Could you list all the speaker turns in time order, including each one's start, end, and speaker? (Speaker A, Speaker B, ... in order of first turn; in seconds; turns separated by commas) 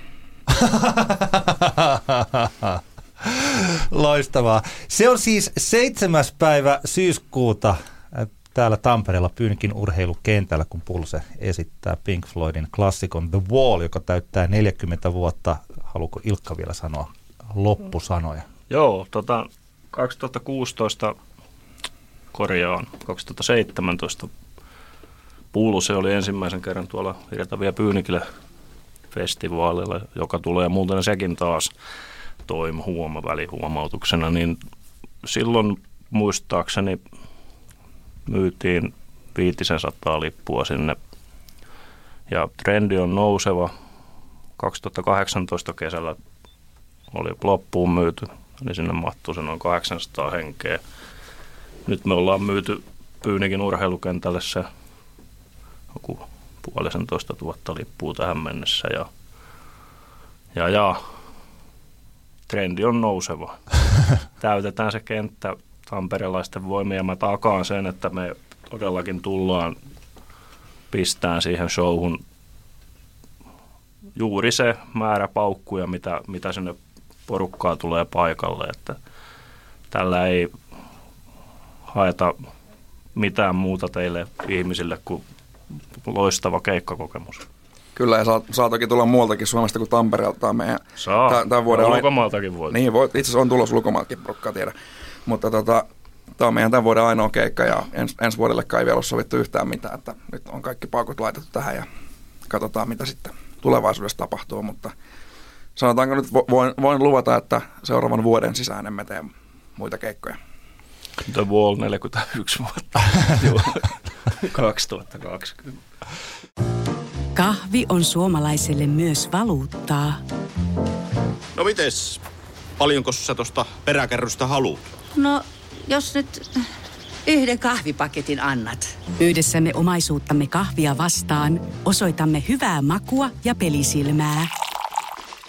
Speaker A: 0.5-18.5, Speaker B: 18.7-21.1, Speaker B: 22.3-24.3, Speaker B: 25.5-28.2, Speaker B: 29.1-31.7, Speaker B: 32.5-34.6, Speaker B: 35.2-37.0, Speaker B: 38.3-41.0, Speaker B: 42.3-43.7, Speaker B: 44.6-46.2, Speaker B: 47.1-50.8, Speaker B: 51.9-54.7, Speaker B: 55.9-59.1, Speaker B: 60.5-61.0, Speaker B: 62.5-69.8, Speaker B: 70.9-72.2, Speaker B: 74.2-79.0, Speaker B: 79.9-80.5, Speaker B: 81.9-82.4, Speaker B: 83.2-85.2, Speaker B: 85.9-87.5, Speaker C: 88.0-92.1, Speaker B: 91.0-92.8, Speaker C: 92.7-94.7, Speaker C: 95.3-95.9, Speaker C: 96.4-101.9, Speaker C: 102.5-104.9, Speaker C: 105.8-110.4, Speaker B: 111.2-115.8, Speaker D: 117.3-120.2, Speaker E: 121.6-122.2, Speaker E: 122.8-124.8, Speaker F: 125.2-126.7, Speaker F: 127.3-129.0, Speaker D: 129.2-134.5